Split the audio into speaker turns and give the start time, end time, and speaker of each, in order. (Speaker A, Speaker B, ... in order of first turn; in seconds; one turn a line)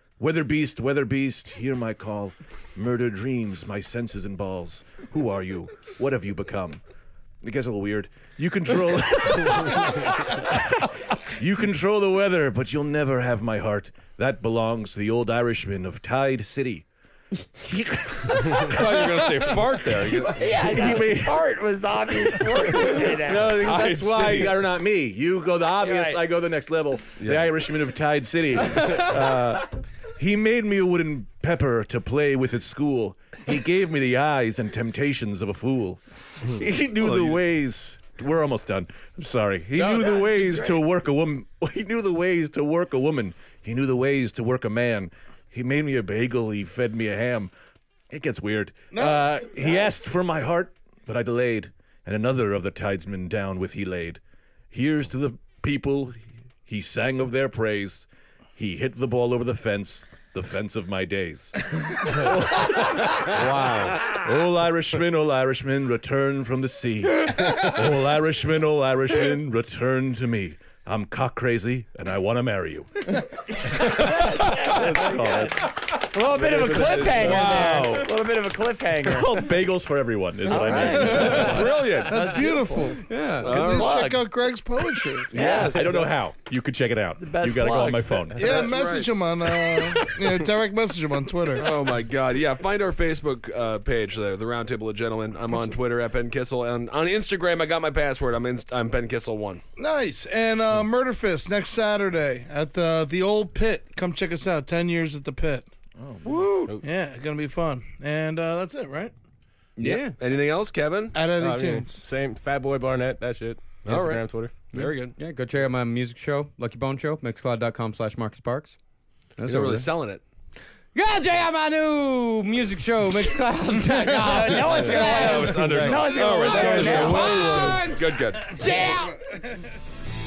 Speaker A: 0.2-6.8
Speaker A: 7.4-16.9
Speaker A: 17.6-19.1
Speaker B: 18.3-21.2
Speaker C: 20.2-23.7
Speaker A: 20.8-21.2
Speaker A: 22.7-29.6
Speaker B: 23.3-24.6
Speaker C: 25.6-26.2
Speaker B: 27.2-27.5
Speaker B: 28.7-29.7
Speaker A: 30.2-47.5
Speaker B: 37.0-37.4
Speaker C: 39.8-40.8
Speaker A: 48.1-73.1
Speaker D: 48.9-49.9
Speaker B: 63.3-64.1
Speaker A: 73.7-78.2
Speaker C: 73.8-79.6
Speaker B: 74.0-75.6
Speaker B: 76.8-78.1
Speaker A: 79.0-82.0
Speaker C: 80.4-83.0
Speaker B: 80.7-82.4
Speaker D: 80.8-85.3
Speaker E: 83.0-83.7
Speaker B: 83.4-84.1
Speaker C: 83.6-84.3
Speaker C: 85.3-86.0
Speaker A: 85.3-88.7
Speaker B: 85.3-86.1
Speaker C: 87.2-88.5
Speaker D: 88.3-91.8
Speaker B: 88.4-89.1
Speaker B: 91.6-99.6
Speaker D: 99.8-105.7
Speaker A: 106.0-106.5
Speaker E: 106.3-106.6
Speaker C: 106.4-106.8
Speaker D: 106.8-109.1
Speaker E: 109.8-110.2
Speaker B: 109.8-111.2
Speaker D: 111.1-112.0
Speaker F: 111.4-114.5
Speaker B: 113.8-115.2
Speaker E: 114.7-118.8
Speaker E: 119.4-119.9
Speaker B: 119.5-120.2
Speaker E: 121.0-129.2
Speaker C: 124.2-127.8
Speaker B: 124.7-128.6
Speaker D: 126.4-129.7
Speaker C: 128.6-128.9